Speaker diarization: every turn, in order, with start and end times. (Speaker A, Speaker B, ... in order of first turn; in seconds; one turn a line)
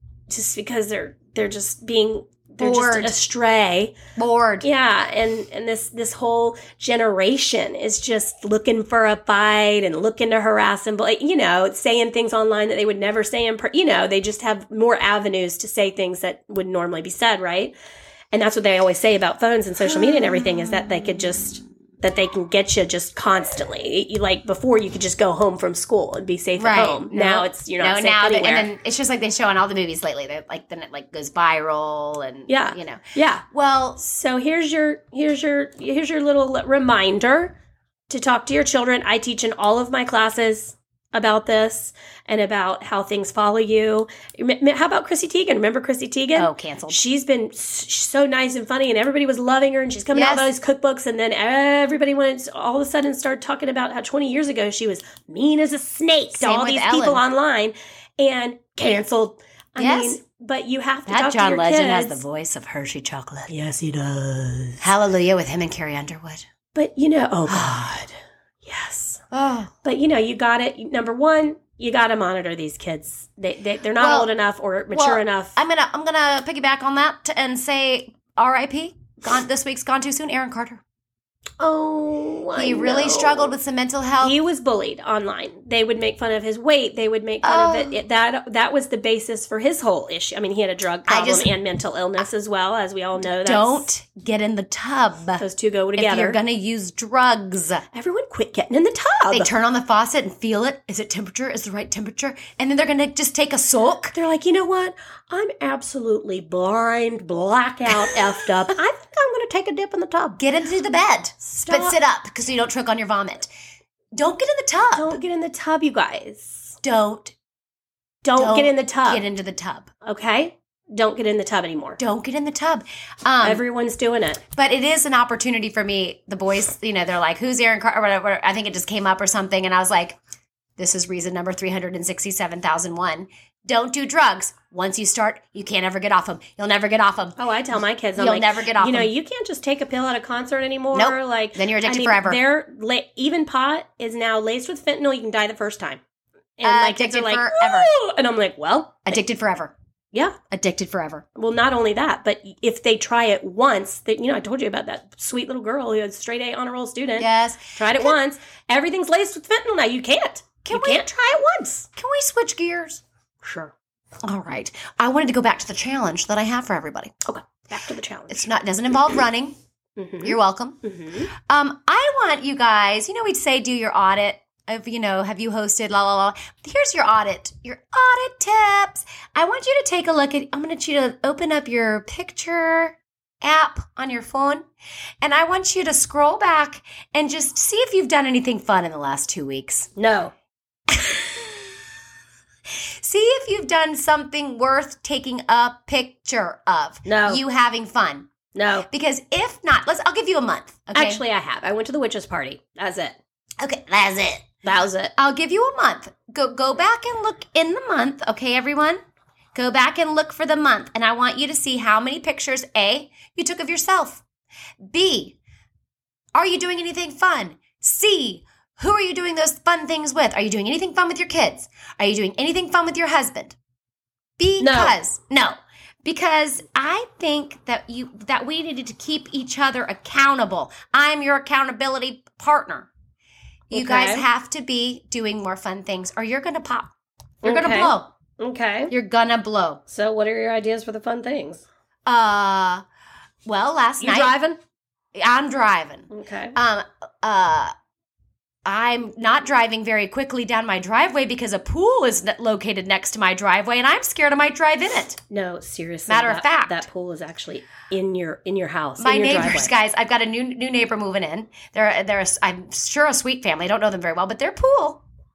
Speaker A: 0.3-4.0
Speaker B: 2.6-3.2
Speaker B: 4.2-4.7
Speaker A: 4.6-17.8
Speaker A: 18.3-28.7
Speaker B: 20.0-20.5
Speaker B: 26.6-34.0
Speaker A: 32.5-33.5
Speaker A: 34.0-37.5
Speaker A: 38.1-62.2
Speaker B: 46.4-47.0
Speaker B: 50.1-50.5
Speaker B: 56.3-57.2
Speaker B: 59.8-60.2
Speaker B: 61.1-63.5
Speaker A: 63.5-64.8
Speaker B: 64.8-66.5
Speaker A: 66.7-69.2
Speaker B: 67.5-67.9
Speaker B: 69.3-69.7
Speaker A: 69.8-75.5
Speaker B: 74.0-74.3
Speaker B: 74.9-80.8
Speaker A: 81.6-83.5
Speaker B: 82.5-84.3
Speaker A: 84.2-93.9
Speaker B: 87.4-88.0
Speaker B: 91.1-91.5
Speaker B: 93.4-95.4
Speaker A: 95.4-96.4
Speaker B: 96.0-97.8
Speaker A: 97.9-99.5
Speaker B: 99.3-104.2
Speaker A: 104.1-110.4
Speaker B: 110.4-113.5
Speaker A: 111.5-112.0
Speaker B: 114.2-115.2
Speaker A: 115.0-116.8
Speaker B: 116.8-117.3
Speaker A: 118.2-119.2
Speaker B: 118.4-119.9
Speaker A: 120.0-122.0
Speaker B: 122.0-123.6
Speaker A: 123.4-124.4
Speaker B: 124.5-130.2
Speaker B: 130.8-137.4
Speaker A: 137.4-146.0
Speaker B: 138.2-139.1
Speaker B: 140.9-142.4
Speaker A: 146.6-149.2
Speaker B: 146.6-147.9
Speaker B: 149.1-149.7
Speaker A: 150.1-150.4
Speaker B: 150.5-151.2
Speaker A: 151.4-161.9
Speaker B: 157.2-158.1
Speaker B: 160.6-163.0
Speaker A: 163.4-163.7
Speaker B: 164.2-167.1
Speaker A: 167.2-168.5
Speaker B: 168.3-169.6
Speaker A: 170.0-171.3
Speaker B: 170.2-184.6
Speaker B: 185.2-189.9
Speaker A: 190.0-190.3
Speaker B: 190.9-191.7
Speaker B: 193.0-198.3
Speaker A: 197.1-197.4
Speaker A: 198.6-198.9
Speaker B: 198.9-201.2
Speaker A: 200.9-203.2
Speaker B: 203.6-204.5
Speaker A: 204.6-205.1
Speaker B: 205.2-209.0
Speaker B: 209.6-214.2
Speaker B: 214.9-215.4
Speaker B: 216.3-223.6
Speaker B: 224.4-232.9
Speaker A: 224.6-225.0
Speaker A: 233.7-234.3
Speaker B: 233.7-238.1
Speaker A: 237.4-238.9
Speaker B: 238.9-239.8
Speaker A: 239.9-241.7
Speaker B: 242.1-242.8
Speaker B: 243.5-244.4
Speaker A: 244.0-244.6
Speaker B: 245.2-247.7
Speaker A: 246.1-246.6
Speaker B: 248.7-255.2
Speaker A: 255.3-259.7
Speaker B: 256.1-256.9
Speaker B: 259.0-265.0